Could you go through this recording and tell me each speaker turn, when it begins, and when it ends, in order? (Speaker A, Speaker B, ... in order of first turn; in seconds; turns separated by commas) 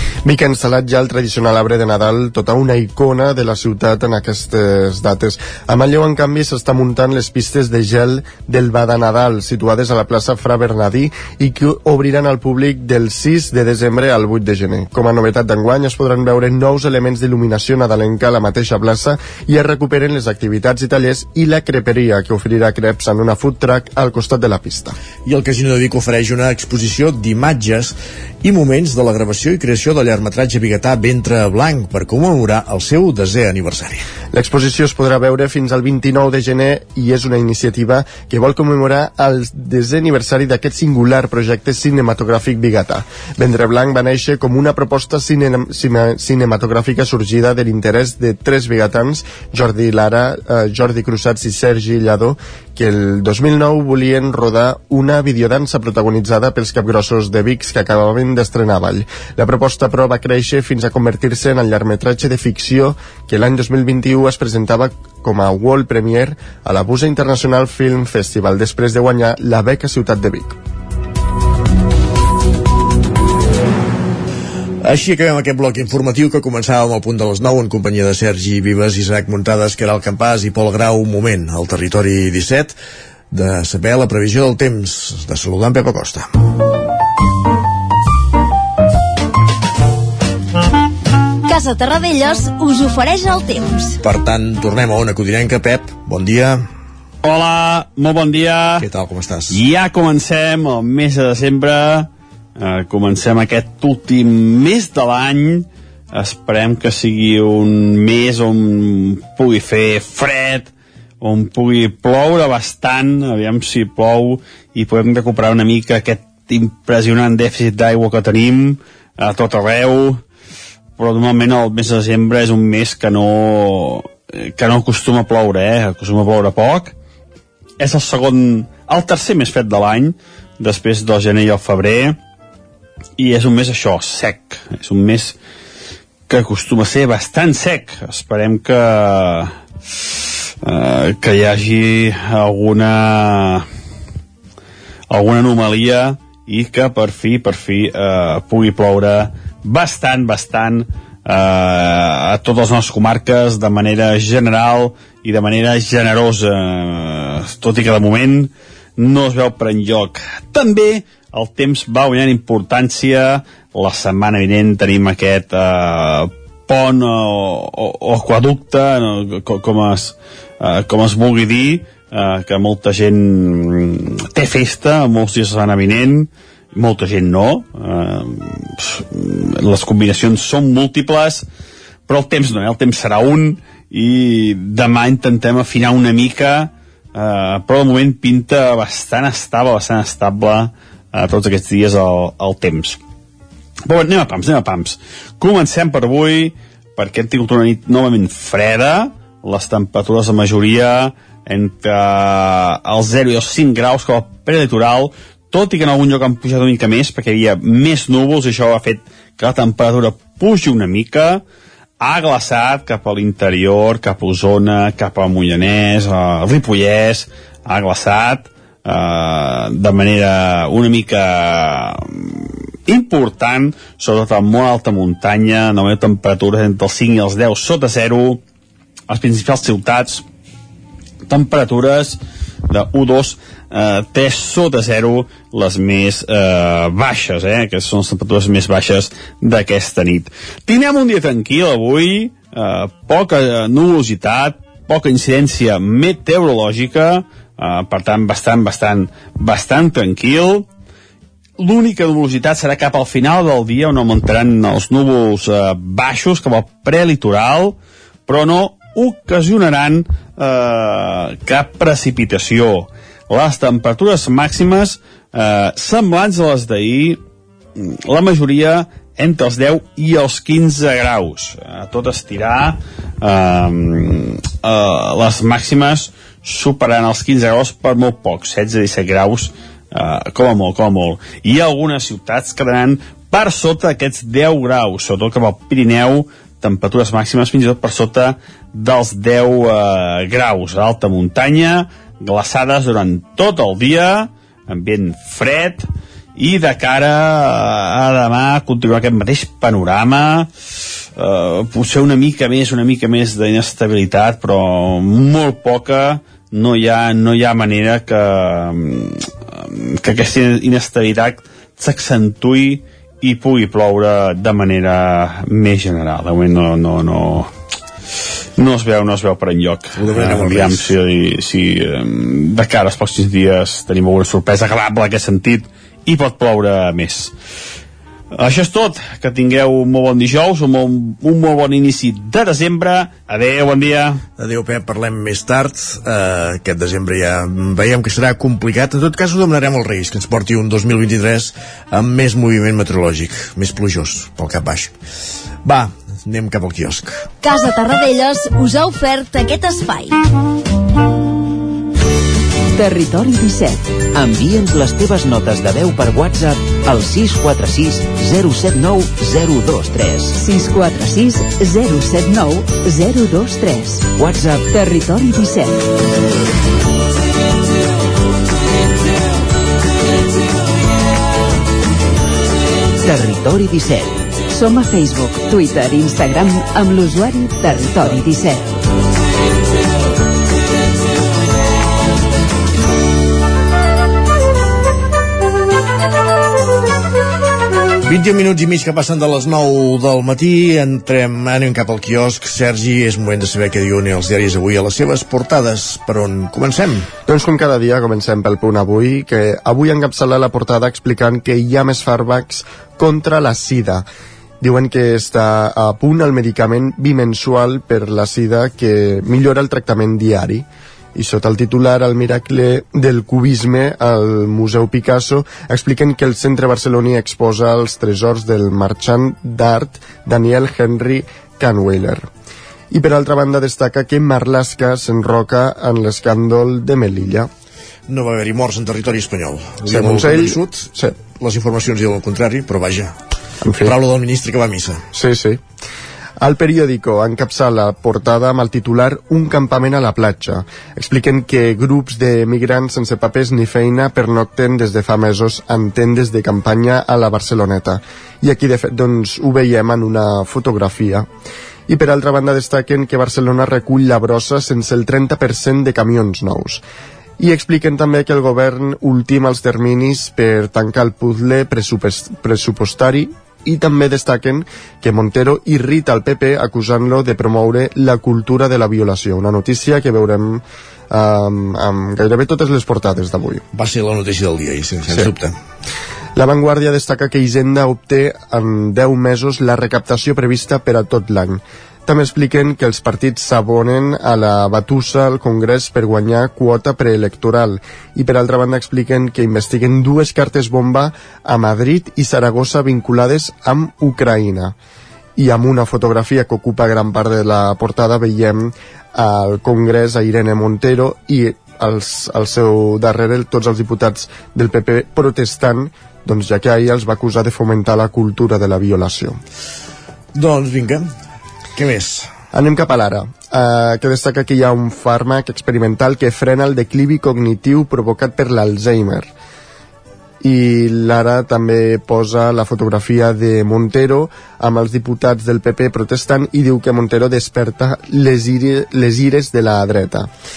Speaker A: 0.2-24.9, Speaker B: 25.2-34.0, Speaker A: 34.3-70.6, Speaker B: 74.8-82.7, Speaker B: 83.3-86.3, Speaker C: 91.5-94.0, Speaker B: 94.0-96.7, Speaker D: 97.2-98.8, Speaker B: 98.8-99.6, Speaker D: 99.5-120.2, Speaker D: 121.0-126.9, Speaker D: 127.8-132.2, Speaker D: 133.2-135.4, Speaker D: 136.3-140.1, Speaker D: 140.6-143.7, Speaker D: 145.1-181.4, Speaker D: 182.1-193.0, Speaker D: 193.8-211.4, Speaker D: 212.0-228.4, Speaker D: 229.1-230.2, Speaker D: 231.3-232.2, Speaker D: 232.7-250.7, Speaker D: 251.6-267.2, Speaker D: 267.8-300.5, Speaker D: 301.1-317.5, Speaker D: 318.6-327.3, Speaker B: 319.9-320.9, Speaker D: 328.3-334.2, Speaker B: 334.4-344.9, Speaker B: 345.6-347.3, Speaker C: 347.4-350.2, Speaker E: 352.7-353.9, Speaker F: 354.1-360.4, Speaker E: 360.4-364.1, Speaker F: 364.1-364.7, Speaker E: 364.7-365.8, Speaker F: 373.0-374.3, Speaker E: 374.5-378.7, Speaker B: 388.1-397.1, Speaker A: 397.2-404.1, Speaker A: 404.6-422.3, Speaker A: 422.9-427.5, Speaker B: 428.1-433.1, Speaker A: 429.8-431.1, Speaker A: 433.6-433.9, Speaker B: 433.8-435.0, Speaker A: 435.1-435.6, Speaker A: 436.4-451.3, Speaker A: 451.9-456.8, Speaker A: 457.4-473.6, Speaker B: 473.7-475.6, Speaker A: 476.3-494.8, Speaker A: 495.4-509.4, Speaker B: 510.3-511.1, Speaker B: 511.7-512.3, Speaker A: 512.5-519.3, Speaker A: 520.4-530.3